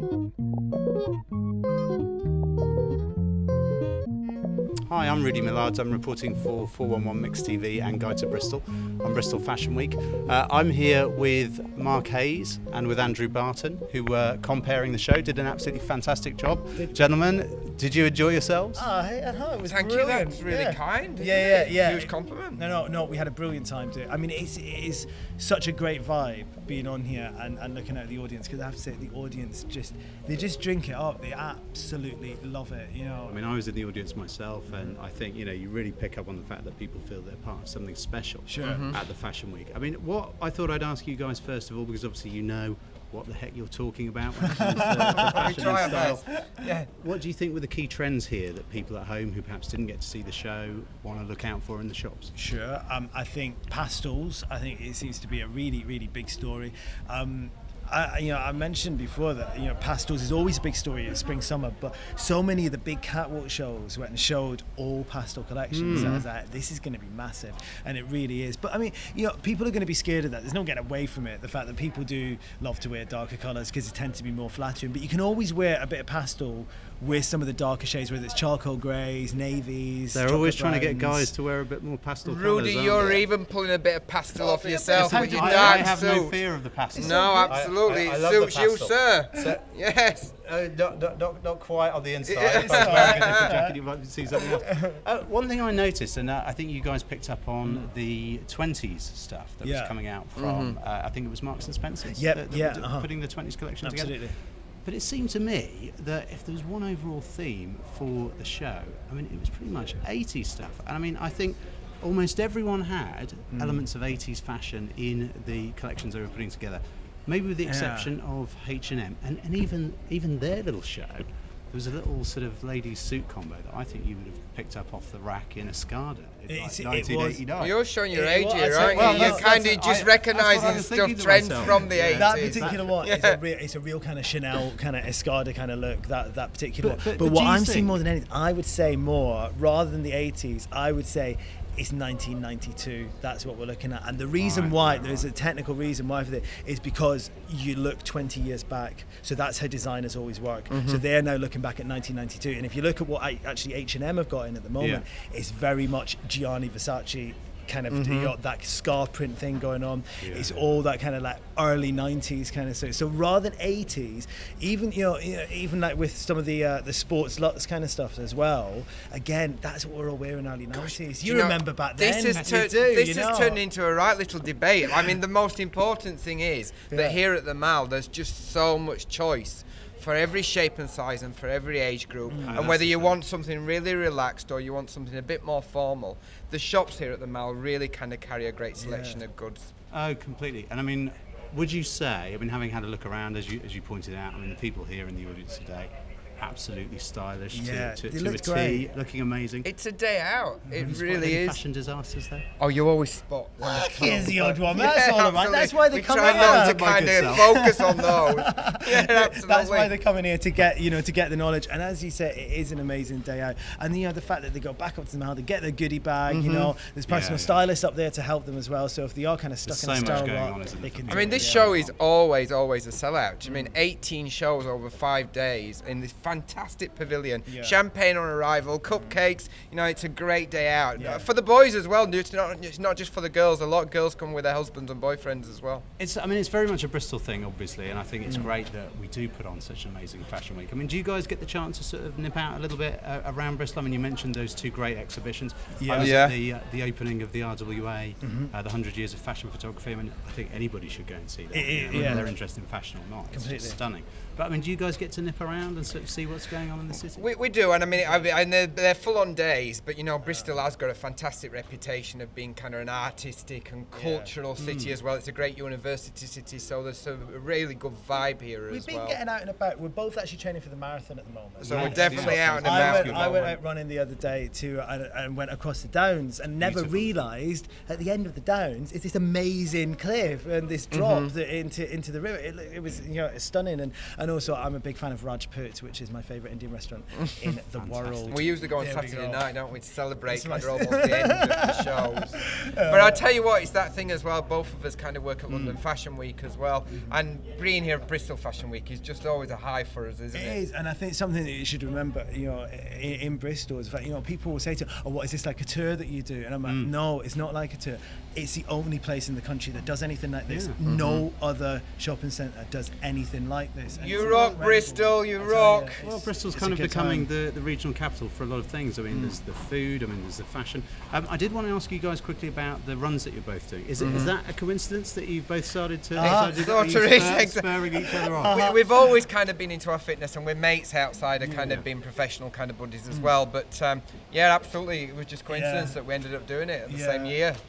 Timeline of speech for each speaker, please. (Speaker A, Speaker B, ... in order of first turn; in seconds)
Speaker A: 4.9-18.8, 33.3-46.2, 47.0-52.3, 65.7-66.2, 80.1-83.2, 84.4-89.6, 90.4-104.3, 104.8-127.7, 128.8-132.9, 136.8-138.0, 144.4-145.3, 154.8-155.0, 160.2-160.6, 182.5-183.2, 189.9-199.7, 200.7-202.4, 206.2-207.5, 217.1-217.6, 219.6-222.0, 236.0-257.2, 264.6-265.0, 271.6-273.6, 276.6-277.2, 287.8-288.7, 295.5-295.8, 306.6-306.9, 310.5-310.8, 316.0-328.6
Speaker B: 16.8-17.1, 18.7-33.4, 38.5-38.9, 44.8-46.4, 52.3-81.3, 84.9-86.0, 86.9-87.6, 92.6-93.8, 94.6-95.0, 99.6-99.9, 102.1-103.1, 103.8-104.3, 113.5-113.9, 117.6-118.1, 126.5-127.4, 128.1-129.5, 131.7-173.6, 176.9-177.2, 182.2-182.6, 188.8-189.2, 197.5-198.9, 203.7-221.8, 223.4-223.8, 227.5-227.8, 230.9-231.3, 238.2-238.5, 245.7-246.2, 248.2-248.5, 251.5-252.3, 253.3-253.8, 260.2-260.5, 263.9-264.4, 268.7-289.6, 290.3-293.2, 300.3-317.3, 326.1-326.7, 328.4-329.2, 331.4-331.8, 335.5-336.0, 336.9-337.4
Speaker C: 19.6-22.6, 38.6-39.0, 44.6-46.9, 65.9-66.2, 82.2-90.3, 92.2-93.5, 100.3-100.8, 127.6-133.4, 150.7-151.0, 157.9-158.3, 170.7-189.7, 199.6-201.6, 202.6-209.9, 216.3-216.7, 221.1-235.8, 245.9-246.3, 251.9-252.2, 257.1-269.2, 271.6-273.5, 280.9-281.3, 287.2-287.5, 288.3-300.6, 310.8-311.3, 313.9-316.0, 319.1-319.4, 324.0-324.3, 326.2-337.6